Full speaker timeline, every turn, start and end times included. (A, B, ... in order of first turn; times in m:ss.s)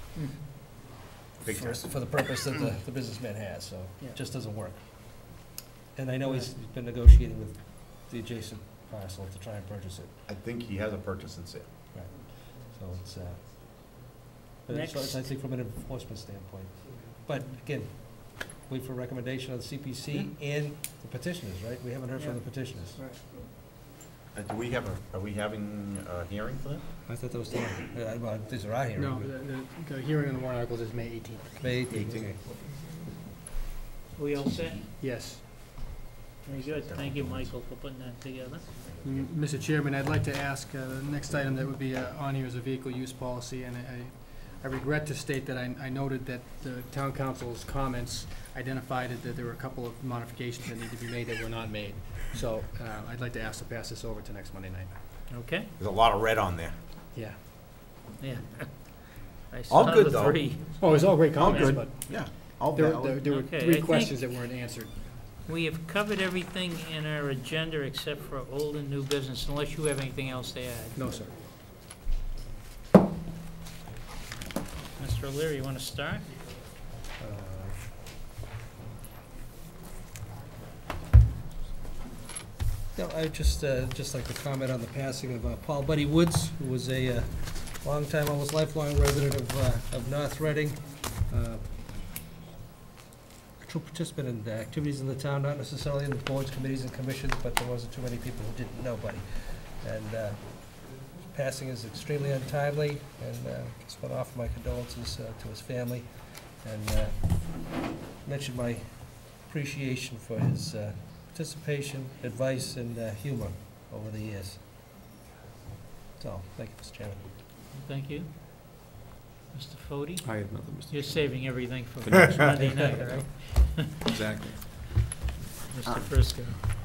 0:00.1-0:00.4 A
0:01.4-0:01.9 B
0:01.4-0:04.8 C
0:05.9-0:10.1 C
0:10.3-0:11.7 B
0:11.9-0:13.4 C
0:14.6-0:23.0 C
0:14.7-0:15.2 A
0:22.9-0:23.2 A
0:24.3-0:26.8 B
0:27.1-0:29.3 C
0:29.0-0:31.6 D
0:31.6-0:32.4 C
0:31.9-0:32.3 B
0:34.1-0:34.9 A
0:35.0-0:35.4 D
0:36.4-0:38.7 A
0:36.5-0:37.5 B
0:39.0-0:39.3 B
0:39.0-0:55.0 D
0:55.3-0:55.7 A
0:55.8-0:56.7 B
0:57.1-0:57.4 D
0:58.2-1:00.8 A
0:59.7-1:00.4 B
1:00.8-1:05.0 D
1:01.3-1:03.2 B
1:01.3-1:01.8 A
1:03.2-1:04.3 A
1:05.4-1:11.0 A
1:10.9-1:11.4 D
1:15.0-1:16.3 A
1:17.2-1:17.8 C
1:23.0-1:31.6 C
1:33.6-1:46.1 C
1:46.6-1:47.7 C
1:48.2-1:54.6 C
1:56.2-1:57.2 C
1:57.7-1:58.3 A
1:59.5-2:00.3 A
2:00.2-2:01.3 E
2:00.9-2:04.3 A
2:02.0-2:03.2 E
2:04.1-2:04.6 E
2:05.7-2:06.6 A